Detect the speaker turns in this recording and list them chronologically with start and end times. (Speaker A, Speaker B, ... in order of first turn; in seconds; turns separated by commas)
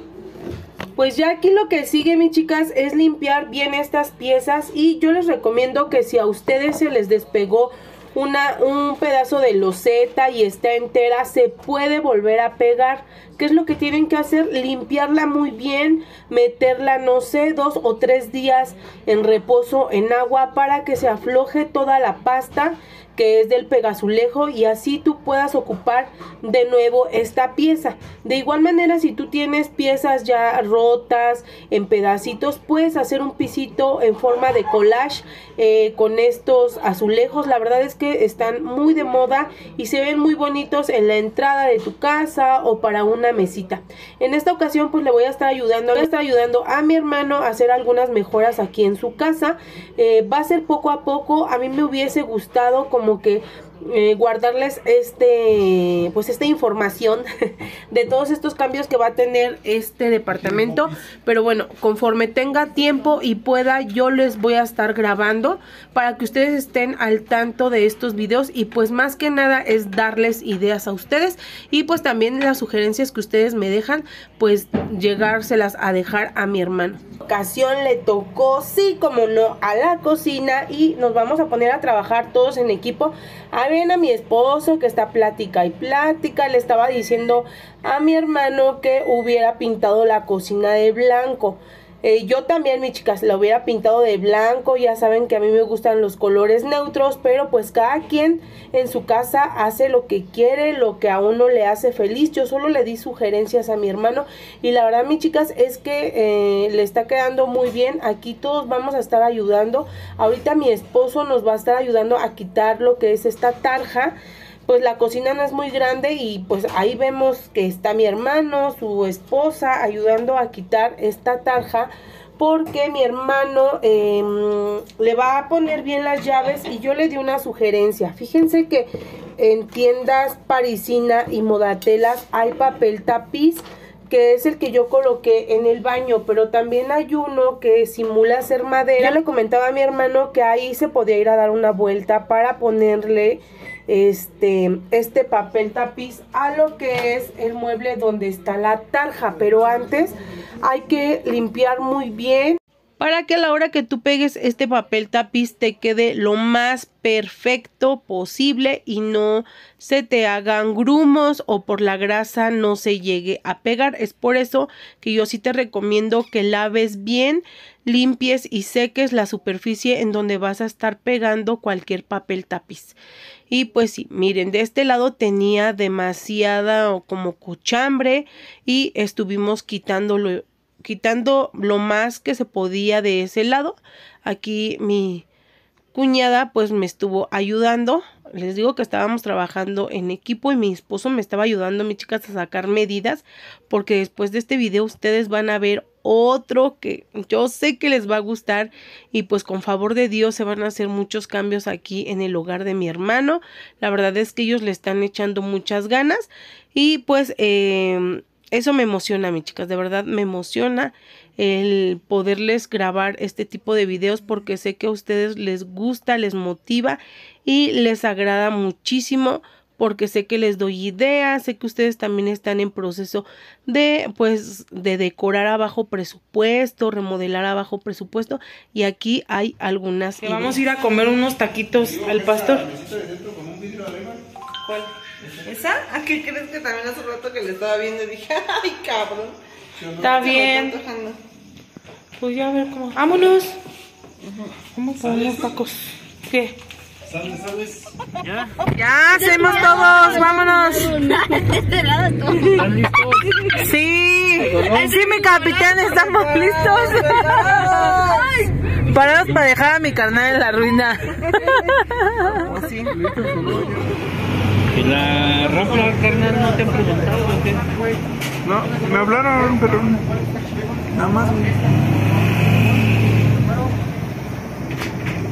Speaker A: 0.9-57.3, Speaker A: 57.9-114.1, Speaker A: 114.7-173.0, Speaker A: 173.5-185.2, Speaker A: 185.9-230.6, Speaker B: 230.2-232.7, Speaker C: 232.0-234.2, Speaker D: 234.6-234.9, Speaker D: 235.4-241.2, Speaker B: 240.0-240.8, Speaker B: 242.2-243.6, Speaker D: 244.2-244.6, Speaker B: 244.7-246.5, Speaker C: 247.1-247.8, Speaker A: 248.8-251.3, Speaker B: 249.2-251.1, Speaker B: 253.4-258.1, Speaker A: 254.6-255.3, Speaker B: 258.9-262.5, Speaker E: 264.7-267.7, Speaker C: 268.4-270.1, Speaker C: 271.0-271.4